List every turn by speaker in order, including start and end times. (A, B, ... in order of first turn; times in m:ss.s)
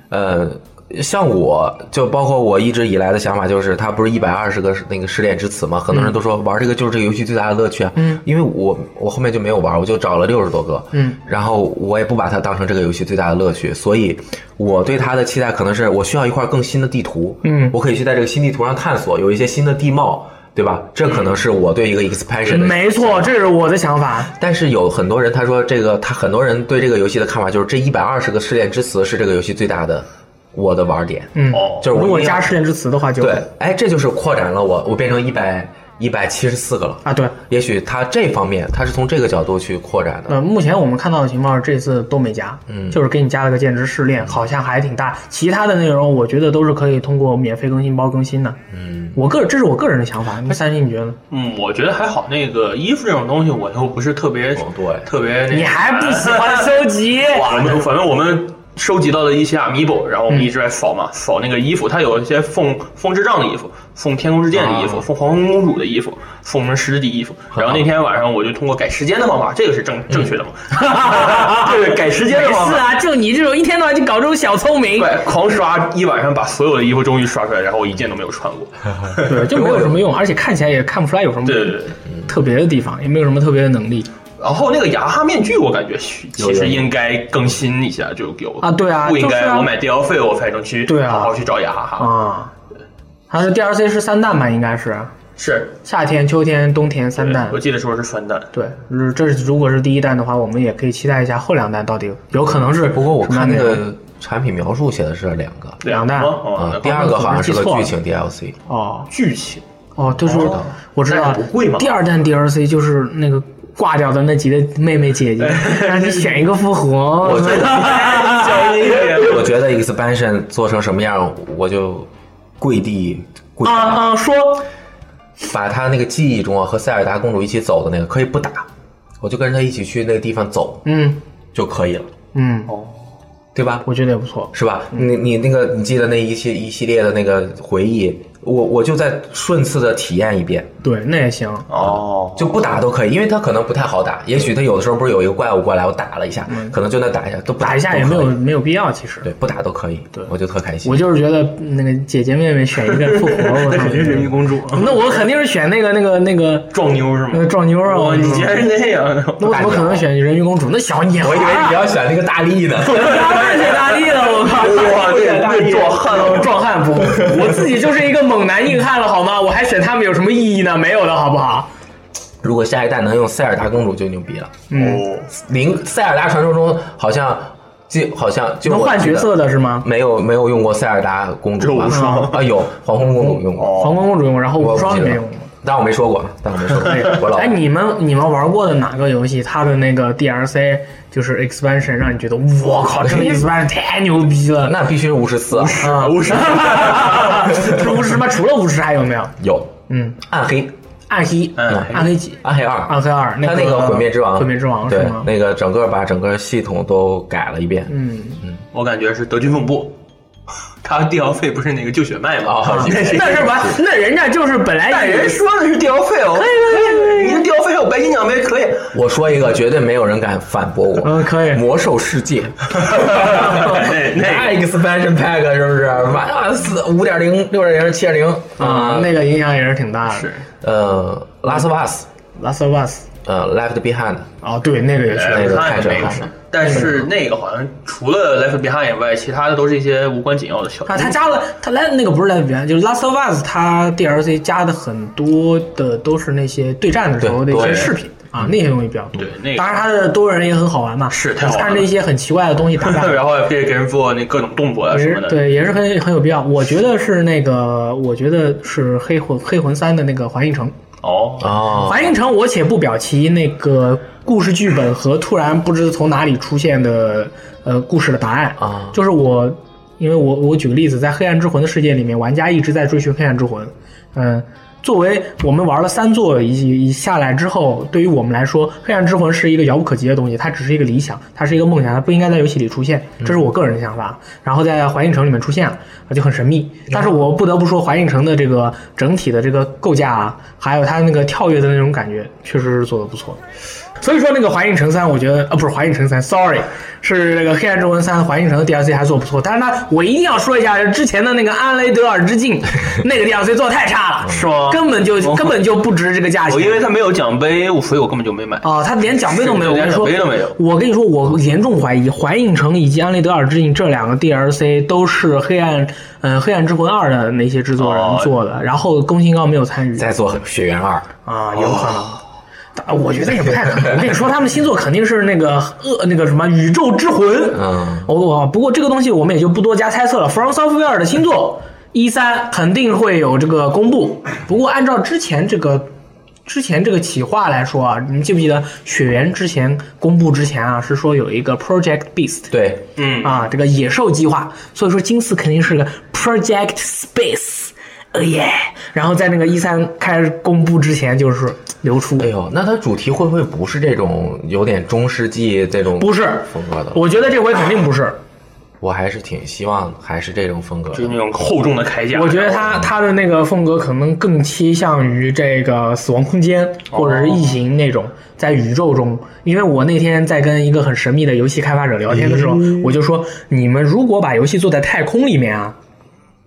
0:00.1-0:23.3 A
0:08.0-0:08.2 B
0:10.9-0:11.2 B
0:17.4-0:17.8 B
0:22.5-0:24.3 B
0:24.3-0:32.5 A
0:31.3-0:33.4 B
0:31.5-0:31.8 C
0:33.2-0:40.4 A
0:37.0-0:37.3 B
0:40.3-0:48.6 B
0:42.7-0:43.0 A
0:48.7-0:49.2 A
0:49.1-0:51.2 B
0:51.3-1:12.9 C
0:54.6-0:55.1 A
0:55.5-0:57.7 B
1:04.5-1:05.0 A
1:07.5-1:07.8 A
1:10.7-1:15.2 B
1:15.0-1:19.4 C
1:19.2-1:24.1 B
1:19.5-1:20.0 A
1:21.4-1:21.9 C
1:24.4-1:32.1 C
1:26.4-1:26.9 A
1:28.6-1:29.7 B
1:30.9-1:31.3 B
1:32.0-1:32.5 B
1:33.3-1:35.1 B
1:35.4-1:35.7 C
1:35.8-1:37.6 B
1:37.2-1:38.5 C
1:38.5-1:43.8 B
1:42.4-1:45.8 A
1:45.8-1:47.0 C
1:45.8-1:47.9 B
1:46.5-1:48.6 A
1:48.7-1:49.1 B
1:49.1-1:49.6 C
1:50.0-1:59.2 B
1:50.3-1:51.9 C
1:50.3-1:50.7 A
1:55.4-1:56.4 C
1:57.2-1:58.1 A
1:57.4-1:59.5 C
1:58.9-2:04.0 A
2:03.6-2:04.7 B
2:05.4-2:08.7 A
2:09.2-2:10.8 A
2:10.8-2:11.2 B
2:11.5-2:12.1 A
2:12.3-2:12.7 B
2:13.5-2:13.8 A
2:13.8-2:15.0 B
2:14.5-2:20.7 A
2:20.8-2:21.7 B
2:21.7-2:22.6 C
2:21.8-2:28.4 A
2:26.5-2:26.7 B
2:27.6-2:29.3 B
2:29.2-2:31.0 A
2:30.8-2:36.7 B
2:32.9-2:35.0 C
2:36.7-2:39.6 C
2:37.3-2:38.6 B
2:39.4-2:41.9 B
2:39.4-2:40.0 A
2:41.2-2:43.6 A
2:42.8-2:51.7 B
2:43.1-2:46.6 C
2:47.0-2:47.5 A
2:52.4-2:54.6 A
2:54.7-2:55.0 B
2:54.7-2:55.3 C
2:55.3-3:03.8 A
2:58.6-2:59.8 B
3:01.6-3:02.5 C
3:01.9-3:02.3 B
3:03.2-3:05.5 B
3:03.5-3:04.0 C
3:04.6-3:07.6 A
3:06.8-3:14.8 B
3:13.0-3:13.5 A
3:14.6-3:15.9 A
3:15.5-3:17.5 C
3:15.8-3:19.3 B
3:17.5-3:17.8 A
3:19.4-3:20.7 A
3:19.9-3:20.2 B
3:21.1-3:25.3 B
3:21.6-3:22.1 C
3:21.7-3:28.6 A
3:27.9-3:28.4 B
3:28.7-3:30.0 C
3:30.8-3:33.7 C
3:32.4-3:33.8 A
3:32.6-3:35.4 B
3:34.9-3:38.9 C
3:36.3-3:37.4 B
3:38.9-3:49.1 A
3:41.0-3:41.6 B
3:42.8-3:44.5 C
3:48.6-3:50.3 B
3:50.1-3:50.4 C
3:50.6-3:52.1 A
3:52.4-3:53.1 B
3:53.2-3:54.3 A
3:54.4-3:57.1 B
3:55.1-4:01.2 C
3:55.2-3:56.3 A
4:00.9-4:13.2 B
4:07.2-4:08.5 A
4:07.5-4:07.9 C
4:09.2-4:09.8 C
4:11.1-4:11.9 C
4:12.8-4:15.5 C
4:14.9-4:20.7 B
4:21.0-4:21.6 C
4:21.4-4:22.1 A
4:21.7-4:53.4 B
4:28.6-4:28.9 A
4:54.0-5:06.8 B
5:04.3-5:05.6 C
5:06.5-5:10.6 C
5:08.6-5:20.1 B
5:17.8-5:18.3 C
5:20.0-5:21.1 A
5:21.2-5:22.2 B
5:21.5-5:22.2 C
5:22.8-5:35.9 B
5:23.6-5:24.1 A
5:27.5-5:28.1 A
5:36.4-5:42.5 B
5:42.5-5:42.8 A
5:43.0-5:43.4 C
5:43.2-5:52.3 B
5:52.2-5:57.0 A
5:56.0-5:58.2 B
5:58.8-6:01.6 A
6:00.9-6:02.7 C
6:02.1-6:15.8 B
6:06.9-6:07.5 C
6:12.1-6:12.9 A